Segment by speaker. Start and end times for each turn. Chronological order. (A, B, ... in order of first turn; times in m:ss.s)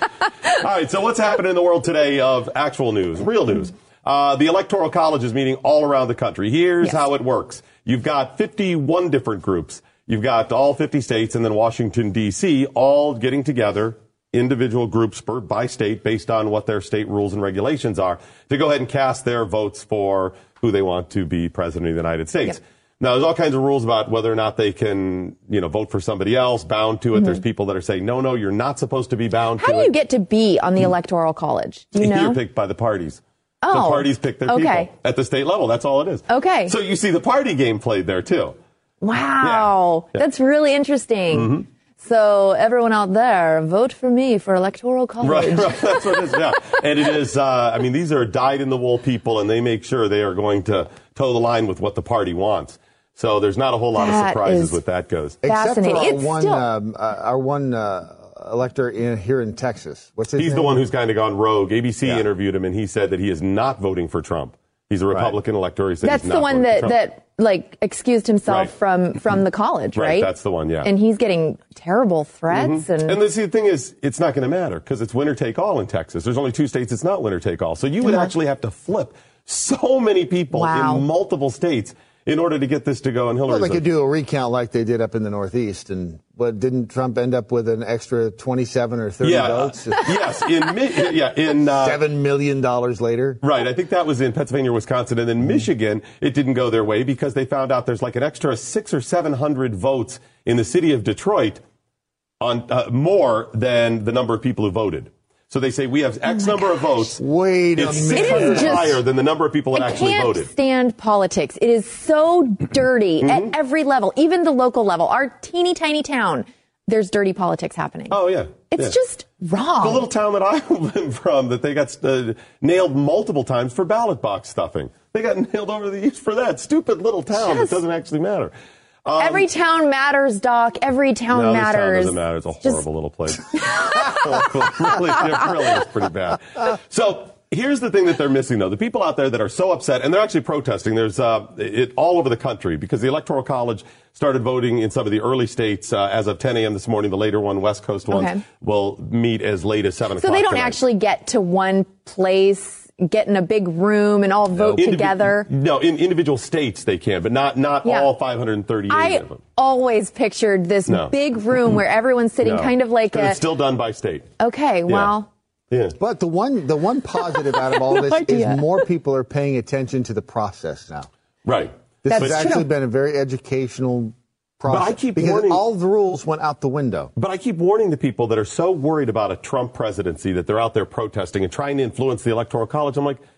0:00.4-0:29.9 A
0:29.6-0:32.4 B
0:32.0-0:38.6 A
0:33.6-0:34.9 B
0:36.3-0:36.8 B
0:39.0-0:46.2 B
0:39.4-0:40.2 A
0:41.3-0:41.6 A
0:45.2-0:55.4 A
0:54.0-0:54.8 B
0:55.4-1:00.8 C
0:55.4-0:56.7 B
1:00.4-1:07.0 A
1:06.0-1:10.3 B
1:08.5-1:08.7 A
1:10.0-1:10.9 A
1:10.8-1:13.2 B
1:12.5-1:23.9 A
1:18.0-1:18.3 B
1:20.5-1:21.1 B
1:23.5-1:30.1 C
1:29.2-1:32.0 A
1:31.6-1:33.4 C
1:33.4-1:41.6 A
1:42.4-1:47.2 A
1:47.2-1:49.0 C
1:47.8-1:50.5 A
1:48.1-1:49.0 B
1:49.7-1:58.2 B
1:53.2-1:53.5 A
1:58.1-1:59.0 A
1:58.7-2:00.1 B
1:59.8-2:08.5 A
2:07.4-2:07.8 B
2:09.0-2:09.5 A
2:09.2-2:12.8 B
2:11.3-2:30.8 A
2:13.5-2:14.2 B
2:28.1-2:28.4 B
2:30.2-2:35.5 B
2:34.6-2:39.4 A
2:37.8-2:38.1 B
2:38.9-2:43.4 B
2:40.9-2:41.1 A
2:42.4-2:44.3 A
2:44.4-2:45.3 B
2:44.9-2:45.1 A
2:45.7-2:46.0 A
2:46.0-2:51.1 C
2:47.9-2:48.6 B
2:51.4-2:52.5 A
2:52.0-2:57.1 C
2:52.1-2:52.7 B
2:54.7-2:55.6 A
2:57.2-3:03.2 A